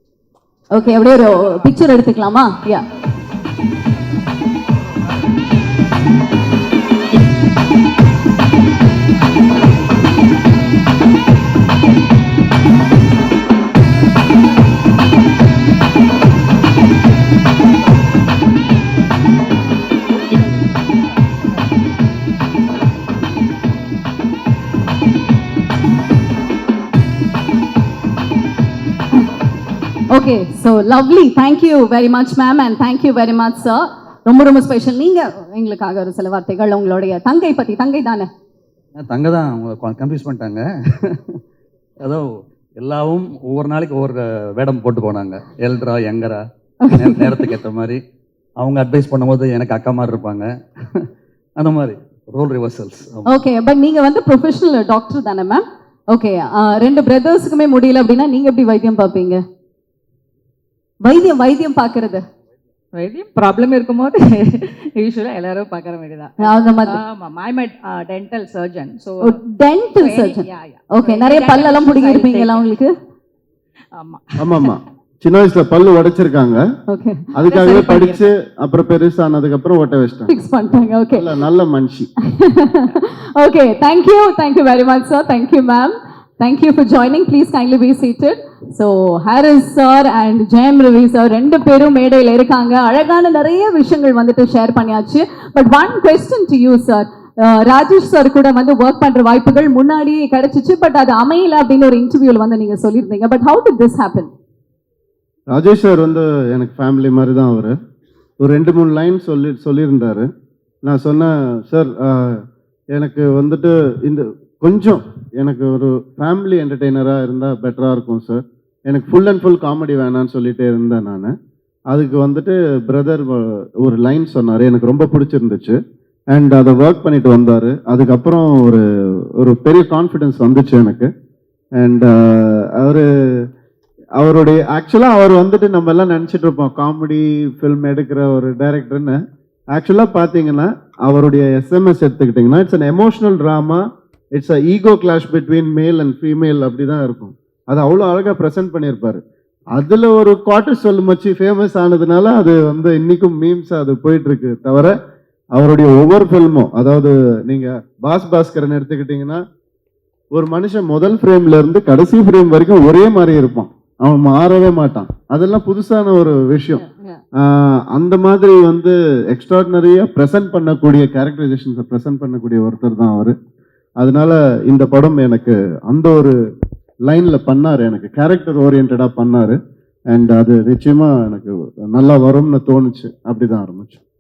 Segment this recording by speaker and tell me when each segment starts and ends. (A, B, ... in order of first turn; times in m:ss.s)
0:00.7-0:02.8 A
0:30.1-0:38.3 A
0:39.0-0:41.4 B
0:42.8-0:48.0 B
0:46.8-0:47.5 A
0:48.6-0:51.1 B
0:51.6-0:53.3 B
0:53.3-0:59.4 A
1:01.0-1:02.2 A
1:02.9-1:09.4 C
1:06.4-1:07.0 A
1:09.2-1:12.9 A
1:10.0-1:12.6 C
1:14.0-1:14.8 C
1:14.4-1:16.6 D
1:16.9-1:17.3 A
1:17.4-1:20.3 D
1:17.5-1:18.3 C
1:20.3-1:21.3 A
1:21.1-1:22.1 D
1:22.3-1:44.3 A
1:45.5-1:47.8 D
1:48.4-1:50.3 D
1:50.9-1:52.4 D
1:52.9-2:01.3 D
2:01.9-2:05.8 D
2:06.3-2:08.8 D
2:09.4-2:11.1 D
2:11.8-2:13.1 D
2:14.2-2:19.2 D
2:19.7-2:23.8 D
2:24.4-2:29.2 D
2:29.8-2:35.0 D
2:35.6-2:39.4 D
2:40.3-2:46.8 D
2:46.8-2:47.2 C
2:47.4-2:53.4 D
2:54.0-2:56.4 D
2:57.1-2:59.6 D
3:00.1-3:04.0 D